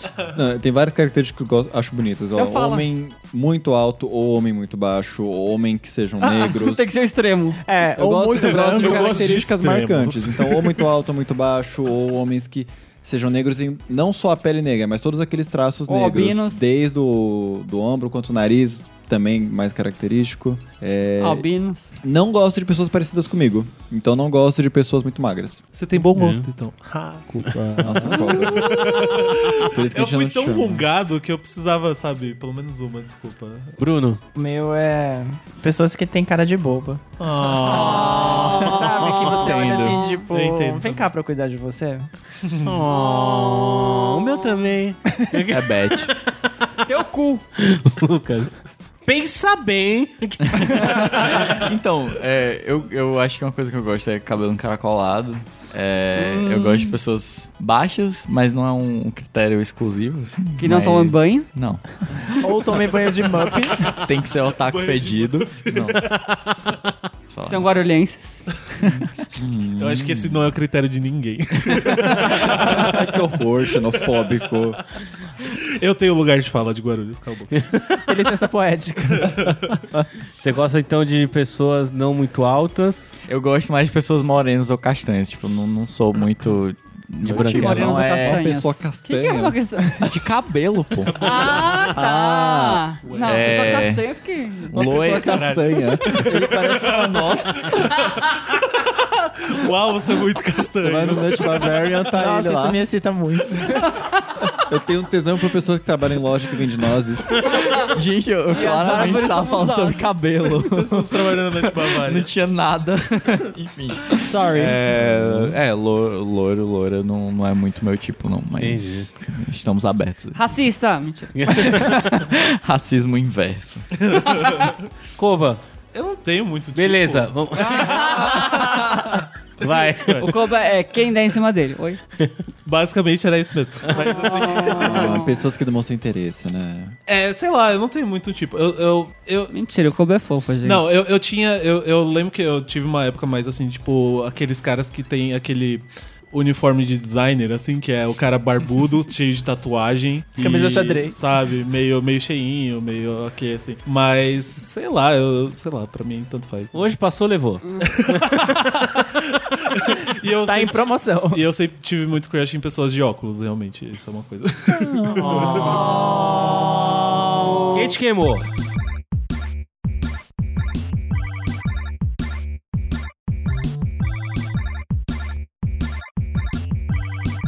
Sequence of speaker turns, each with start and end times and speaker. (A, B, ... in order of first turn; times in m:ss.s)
0:00.3-0:07.0 A
0:02.4-0:02.9 B
0:06.2-0:07.6 B
0:07.6-0:09.3 C
0:08.0-0:21.5 A
0:08.4-0:10.9 D
0:15.9-0:16.7 B
0:21.2-0:21.9 B
0:22.0-0:25.6 A
0:25.7-0:33.8 D
0:26.0-0:26.5 E
0:27.4-0:28.6 C
0:27.8-0:30.9 A
0:33.8-0:34.2 E
0:34.3-0:37.0 C
0:37.2-0:38.6 D
0:37.7-0:40.3 B
0:37.8-0:42.1 C
0:39.4-0:40.0 F
0:40.3-0:41.1 D
0:42.4-0:42.8 D
0:42.6-0:46.1 E
0:42.9-0:44.6 B
0:45.5-0:46.1 F
0:46.8-0:47.4 B
0:47.6-0:51.3 E
0:50.6-1:02.5 F
0:56.1-0:57.0 B
1:00.6-1:01.5 B
1:02.4-1:03.9 C
1:03.7-1:06.0 F
1:04.5-1:06.2 D
1:07.3-1:07.7 F
1:07.4-1:08.5 B
1:09.4-1:10.3 A
1:09.8-1:13.2 D
1:12.1-1:14.8 A
1:13.7-1:14.4 D
1:15.5-1:17.7 D
1:17.5-1:18.0 E
1:18.1-1:19.5 C
1:19.1-1:19.8 D
1:20.4-1:23.2 E
1:23.3-1:28.5 F
1:27.2-1:27.9 E
1:27.3-1:30.3 B
1:27.8-1:29.6 A
1:30.0-1:31.6 F
1:31.0-1:31.8 E
1:31.1-1:35.0 B
1:31.9-1:32.8 A
1:33.0-1:33.8 D
1:33.2-1:34.0 F
1:34.7-1:35.6 F
1:34.7-1:38.0 A
1:35.2-1:42.0 D
1:40.8-1:42.8 A
1:42.1-1:43.8 C
1:43.9-1:44.5 B
1:44.6-1:47.6 A
1:47.4-1:50.5 B
1:47.8-2:00.4 F
1:50.5-1:52.3 D
1:54.3-1:54.8 B
1:55.2-1:55.5 A
1:58.6-1:59.1 E
2:00.3-2:01.6 B
2:01.3-2:02.2 E
2:01.6-2:04.0 F
2:04.0-2:04.8 D
2:04.4-2:04.7 B
2:05.2-2:05.6 E
2:05.9-2:08.6 D
2:06.7-2:08.7 E
2:07.6-2:09.0 B
2:09.6-2:10.3 E
2:09.6-2:10.4 D
2:10.2-2:12.0 B
2:12.6-2:15.2 D
2:13.9-2:15.5 B
2:14.6-2:16.9 A
2:17.1-2:19.9 D
2:19.5-2:21.0 B
2:20.6-2:36.9 D
2:30.4-2:31.2 C
2:36.7-2:38.5 E
2:37.8-2:38.5 D
2:39.3-2:45.9 D
2:40.4-2:41.4 C
2:44.7-2:45.9 C
2:47.7-2:48.4 E